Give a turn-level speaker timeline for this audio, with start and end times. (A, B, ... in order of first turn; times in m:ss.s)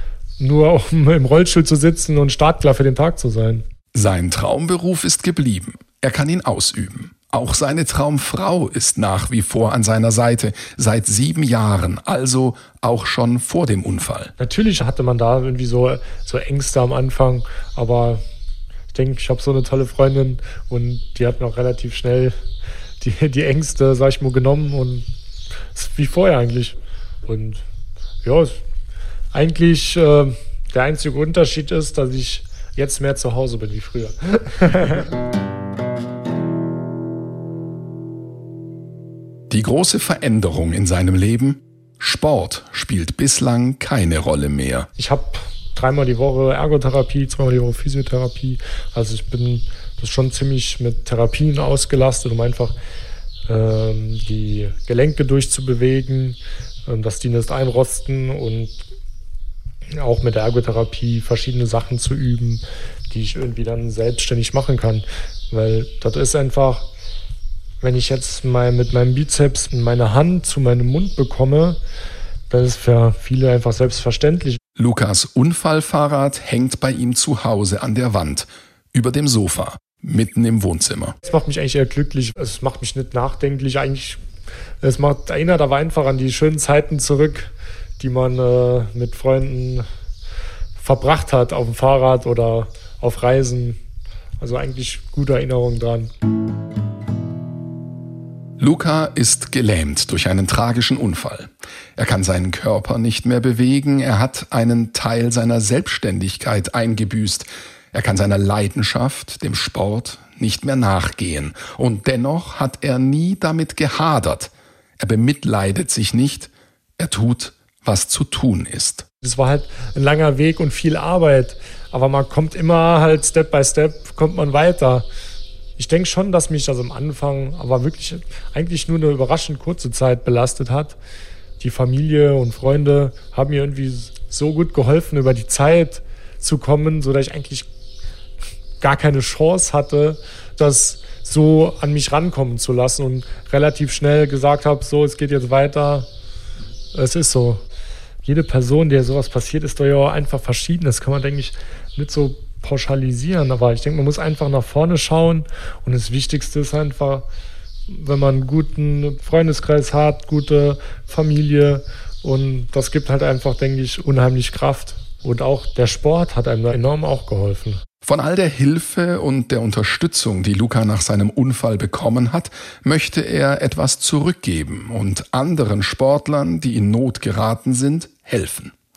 0:00.4-0:03.6 A
0:03.9-0:14.3 B
0:14.4-0:18.2 A
0:18.9-0:22.3 A
0:23.0-0:25.1 A
0:25.7-0:27.6 A
0:28.2-0:28.6 A
0:29.3-0:35.1 A
0:39.5-0:44.9 B
0:45.0-0:52.7 A
0:53.5-0:58.8 A
0:59.9-1:06.9 A
1:07.8-1:11.8 A
1:12.5-1:14.6 A
1:14.8-1:21.1 B
1:21.2-1:24.2 A
1:24.8-1:29.8 A
1:30.8-1:33.8 A
1:34.4-1:36.1 A
1:38.6-1:59.0 B
1:59.2-2:05.0 A
2:05.8-2:11.0 A
2:11.6-2:17.7 A
2:18.8-2:26.1 A
2:26.9-2:27.6 A
2:28.2-2:37.2 A
2:37.9-2:47.8 A
2:48.0-2:58.7 B